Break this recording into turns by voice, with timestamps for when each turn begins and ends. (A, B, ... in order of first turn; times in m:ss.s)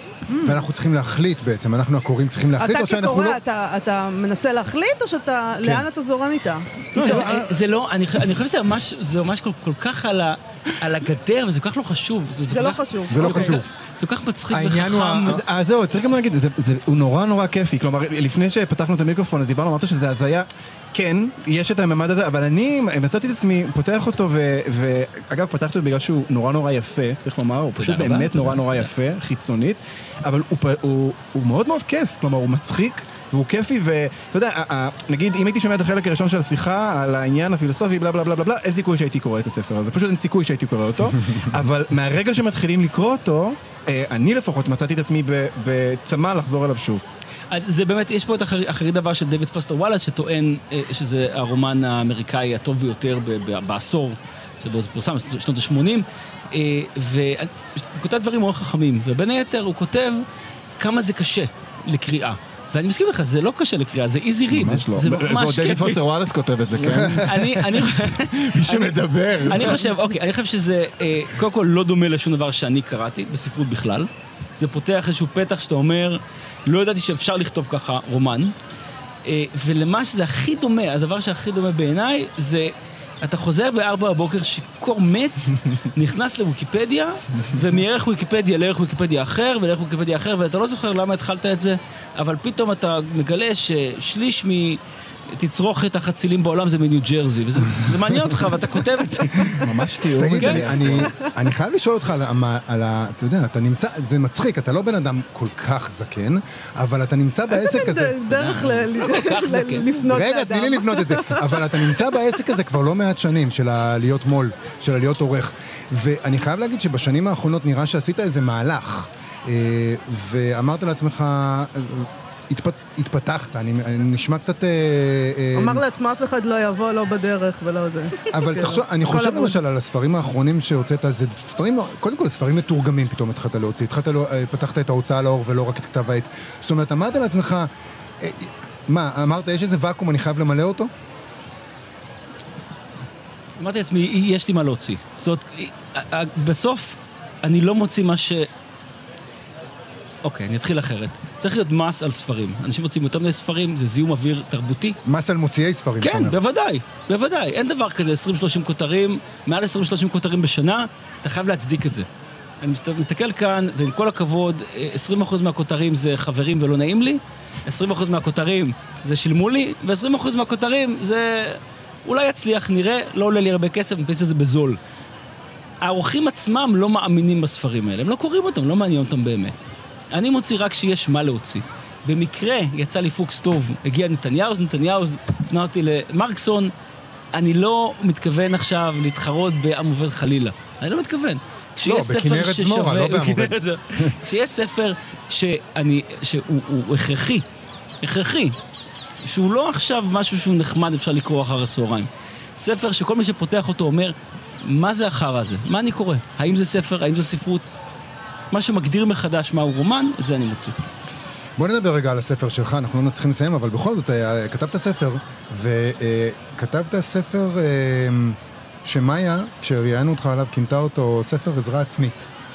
0:00.3-0:00.6 A
0:00.4-0:03.4 B
0:02.6-0:07.4 A
0:07.0-0:15.4 C
0:12.5-0:13.6 A
0:13.1-0:13.7 B
0:14.5-0:15.4 B
0:15.3-0:47.0 D
0:27.8-0:28.9 C
0:47.5-1:00.2 C
1:00.8-1:06.0 C
1:04.5-1:07.3 D
1:06.8-1:07.5 B
1:07.2-1:18.5 C
1:08.4-1:09.8 B
1:19.2-1:34.8 C
1:35.3-1:39.6 C
1:39.6-1:41.1 D
1:40.2-1:48.4 B
1:40.4-1:40.8 C
1:47.5-1:52.2 A
1:48.3-1:50.0 C
1:50.0-2:05.8 B
2:05.6-2:09.6 A
2:08.3-2:20.9 B
2:23.6-2:28.5 C
2:30.2-2:35.0 C
2:35.1-2:36.4 B
2:36.0-2:42.1 C
2:42.6-2:54.8 C
2:55.8-3:06.7 C
3:07.3-3:17.4 C
3:11.8-3:14.2 B
3:18.0-3:18.6 C
3:19.2-3:27.7 C
3:28.5-3:30.8 C
3:31.6-3:42.3 B